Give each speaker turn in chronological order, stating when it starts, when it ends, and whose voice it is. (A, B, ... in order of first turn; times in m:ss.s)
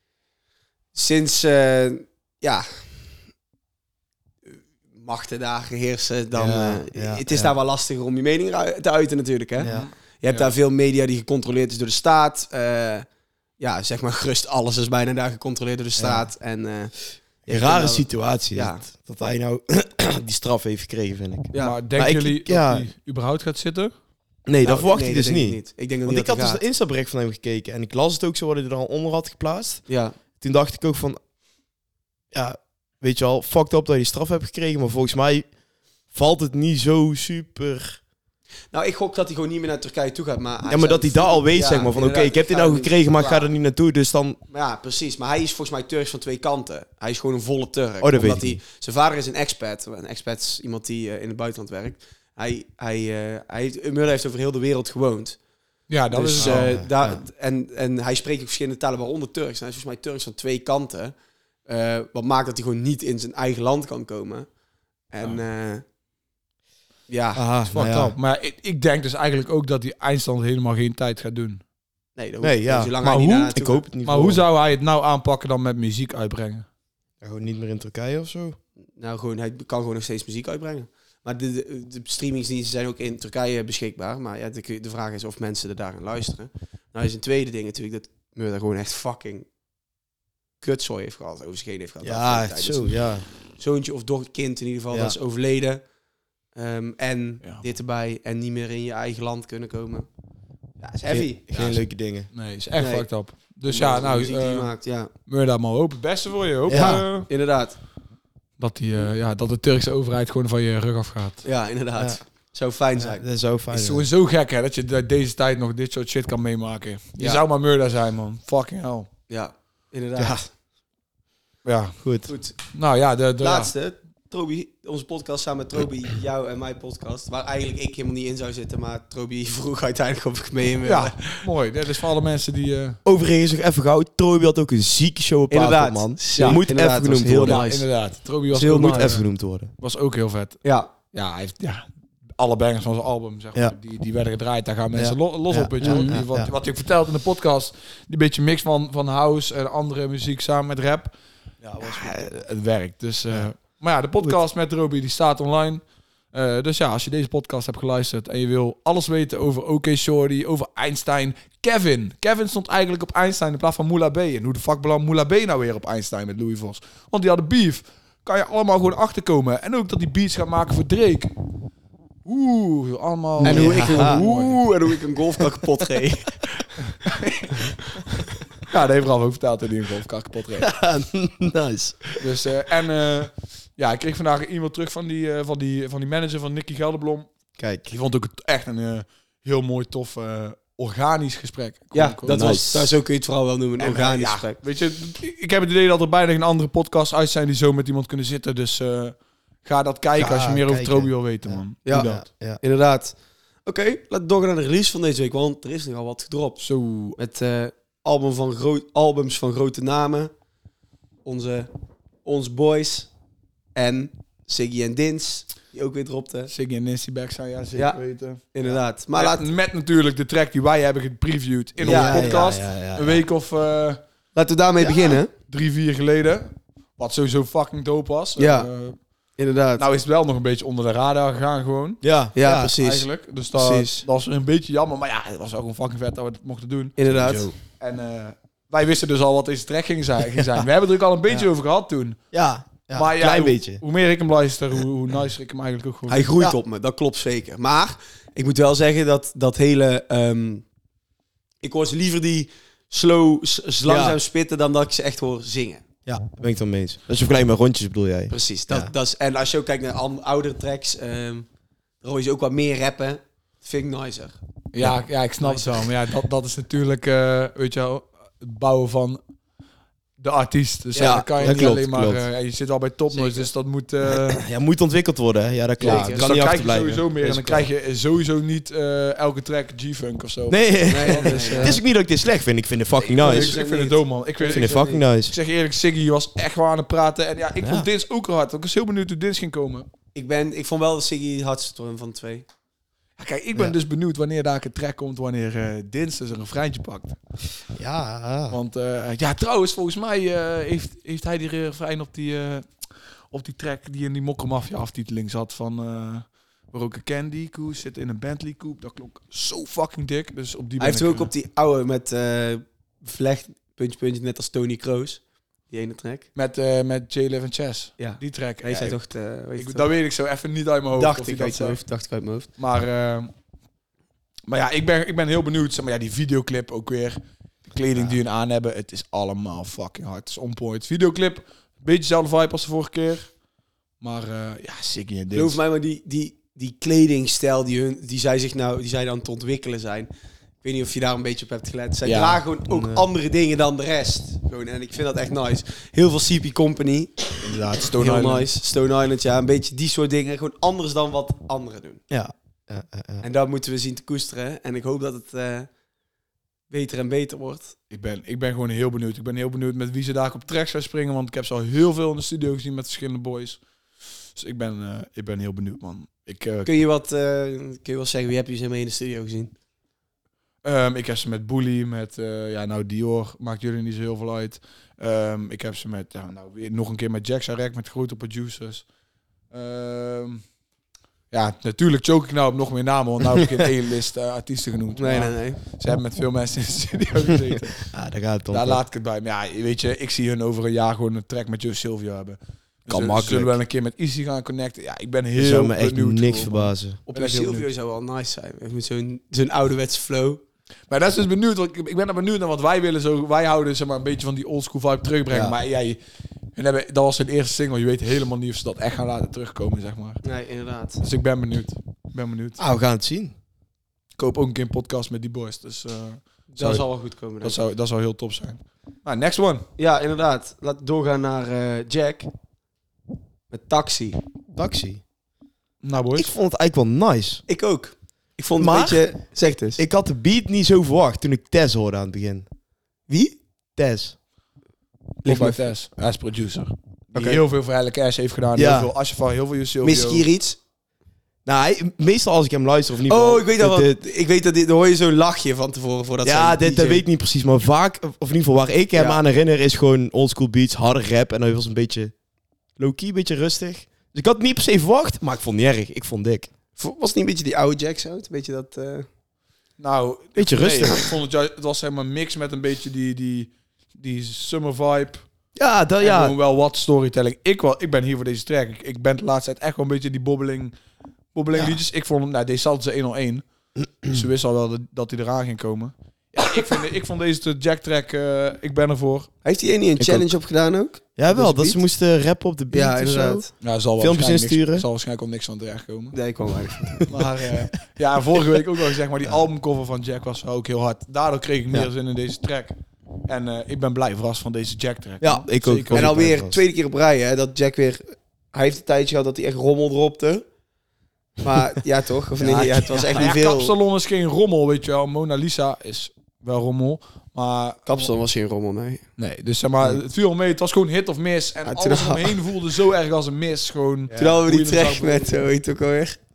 0:00.9-0:02.9 A
0:04.9-0:13.0 A
0:06.4-0:07.5 B
0:09.6-0:09.9 B
0:09.6-0:10.5 C
0:13.6-0:18.8 A
0:16.0-0:16.3 B
0:17.5-0:22.9 B
0:21.6-0:23.9 C
0:24.5-0:29.8 B
0:24.6-0:26.6 A
0:29.9-0:30.2 A
0:30.4-0:31.2 B
0:32.3-0:35.5 B
0:36.1-0:38.0 B
0:38.7-0:43.5 A
0:40.7-0:44.4 B
0:44.5-0:55.4 A
0:48.0-0:48.6 B
0:55.9-0:56.8 C
0:56.1-1:01.1 A
0:56.4-0:57.2 B
1:01.6-1:04.5 A
1:05.1-1:05.8 A
1:07.1-1:07.4 A
1:07.4-1:08.1 B
1:07.7-1:11.6 C
1:12.2-1:13.8 A
1:12.4-1:13.0 B
1:13.0-1:16.6 C
1:13.5-1:14.4 B
1:17.2-1:18.6 B
1:19.0-1:29.5 A
1:30.6-1:33.0 A
1:32.0-1:33.2 B
1:33.6-1:35.8 A
1:36.5-1:40.1 A
1:40.8-1:41.4 A
1:41.1-1:42.3 B
1:41.5-1:41.8 C
1:42.3-1:44.7 C
1:42.8-1:43.0 A
1:43.7-1:45.1 A
1:45.2-1:47.3 C
1:46.7-1:47.0 B
1:46.7-1:47.8 A
1:48.6-1:51.4 C
1:51.4-1:53.2 A
1:53.0-1:54.0 B
1:53.7-1:59.1 C
1:59.3-2:00.4 A
2:00.2-2:00.4 B
2:01.6-2:02.0 C
2:02.0-2:02.3 B
2:02.3-2:02.6 A
2:02.7-2:03.7 C
2:03.4-2:11.4 A
2:10.8-2:13.0 C
2:13.0-2:17.6 B
2:15.5-2:17.9 A
2:16.3-2:16.6 C
2:17.4-2:19.2 C
2:18.5-2:19.2 A
2:18.7-2:19.7 B
2:19.8-2:21.8 C
2:20.6-2:20.9 A
2:22.4-2:31.1 C
2:24.9-2:26.5 B
2:25.8-2:26.2 A
2:31.7-2:32.4 B
2:31.7-2:35.8 C
2:36.3-2:51.3 C
2:52.2-2:54.6 C
2:53.4-2:54.2 B
2:53.4-2:56.8 A
2:57.0-2:57.7 C
2:58.6-3:00.7 C
3:00.6-3:02.1 B
3:02.2-3:07.3 C
3:07.6-3:07.9 B
3:07.9-3:12.4 C
3:11.9-3:14.6 A
3:12.3-3:12.9 B
3:13.8-3:22.2 C
3:20.2-3:22.6 B
3:21.8-3:22.1 A
3:22.6-3:26.6 A
3:26.6-3:27.2 C
3:27.2-3:30.3 A
3:31.2-3:31.7 A
3:32.2-3:33.1 A
3:33.7-3:36.5 A
3:36.5-3:38.5 C
3:38.5-3:39.5 A
3:39.2-3:44.0 C
3:41.8-3:43.2 B
3:41.8-3:42.3 A
3:44.3-3:45.3 A
3:45.4-3:49.0 C
3:48.4-3:48.7 A
3:49.4-3:49.8 A
3:49.8-3:52.0 C
3:52.0-3:52.7 B
3:52.3-3:54.0 A
3:52.8-4:02.2 C
3:57.0-3:57.5 A
4:02.3-4:03.8 B
4:02.9-4:06.3 C
4:06.1-4:10.6 A
4:11.6-4:15.8 A
4:13.8-4:14.2 B
4:16.0-4:18.9 B
4:18.3-4:21.4 A
4:22.0-4:24.4 A
4:24.7-4:29.2 C
4:25.4-4:25.8 A
4:30.2-4:34.4 C
4:30.9-4:31.5 A
4:31.0-4:32.2 B
4:33.1-4:33.5 A
4:34.1-4:37.7 B
4:35.8-4:36.3 A
4:35.8-4:41.8 C
4:40.5-4:43.6 B
4:40.9-4:41.8 A
4:43.1-4:49.9 C
4:43.1-4:45.0 A
4:44.4-4:45.3 B
4:47.6-4:47.9 B
4:50.1-4:52.4 A
4:53.2-4:57.2 C
4:57.7-4:58.6 B
4:58.5-5:02.6 C
5:03.3-5:11.3 C
5:10.8-5:16.3 A
5:16.4-5:19.0 C
5:18.0-5:19.9 A
5:19.6-5:21.8 C
5:21.0-5:22.5 A
5:22.6-5:23.3 C
5:24.5-5:33.3 C
5:34.0-5:35.6 C
5:35.3-5:40.1 A
5:40.6-5:47.4 A
5:42.0-5:42.4 C
5:42.7-5:43.0 B
5:47.4-5:48.5 C
5:48.0-5:52.0 A
5:52.1-5:53.2 B
5:53.2-5:55.7 A
5:56.7-5:57.7 A
5:57.9-6:03.6 C
6:04.4-6:06.7 C
6:06.6-6:09.5 A
6:10.6-6:18.8 C
6:19.5-6:20.4 C
6:21.3-6:27.9 C
6:25.0-6:25.6 A
6:27.9-6:28.8 B
6:28.5-6:37.7 C
6:32.9-6:33.5 B
6:35.4-6:37.0 B
6:37.1-6:40.4 A
6:40.9-6:46.0 C
6:45.3-6:45.6 B
6:46.5-6:50.2 C
6:50.2-6:51.0 A
6:51.0-6:52.6 C
6:52.6-6:53.3 B
6:54.2-6:56.8 C
6:56.5-6:57.6 A
6:57.4-6:59.6 C
6:59.8-7:02.3 A
7:03.5-7:04.2 A
7:04.5-7:05.0 B
7:05.8-7:06.3 C
7:06.2-7:07.4 B
7:07.5-7:09.8 A
7:08.6-7:09.1 B
7:09.8-7:12.4 B
7:13.1-7:13.4 A
7:13.8-7:14.1 B
7:15.2-7:15.6 A
7:15.2-7:20.2 C
7:18.6-7:18.9 B
7:19.8-7:20.6 A
7:21.4-7:24.0 B
7:23.1-7:27.0 A
7:26.2-7:32.1 B
7:28.9-7:29.2 A
7:32.8-7:36.5 B
7:36.8-7:39.1 A
7:39.8-7:45.2 C
7:40.4-7:41.1 B
7:45.6-7:46.3 B
7:46.0-7:50.7 C
7:51.3-7:53.4 C
7:54.0-7:59.3 C
7:59.4-8:01.8 A
8:00.0-8:00.3 B
8:01.2-8:03.4 B
8:02.7-8:03.5 A
8:03.6-8:06.1 C
8:04.0-8:04.8 B
8:06.1-8:07.1 A
8:07.1-8:12.7 C
8:13.2-8:16.1 C
8:15.2-8:16.6 B
8:15.9-8:20.4 A
8:21.4-8:23.7 A
8:22.4-8:28.1 C
8:27.8-8:29.0 A
8:29.2-8:35.5 C
8:31.6-8:32.4 A
8:34.2-8:36.2 A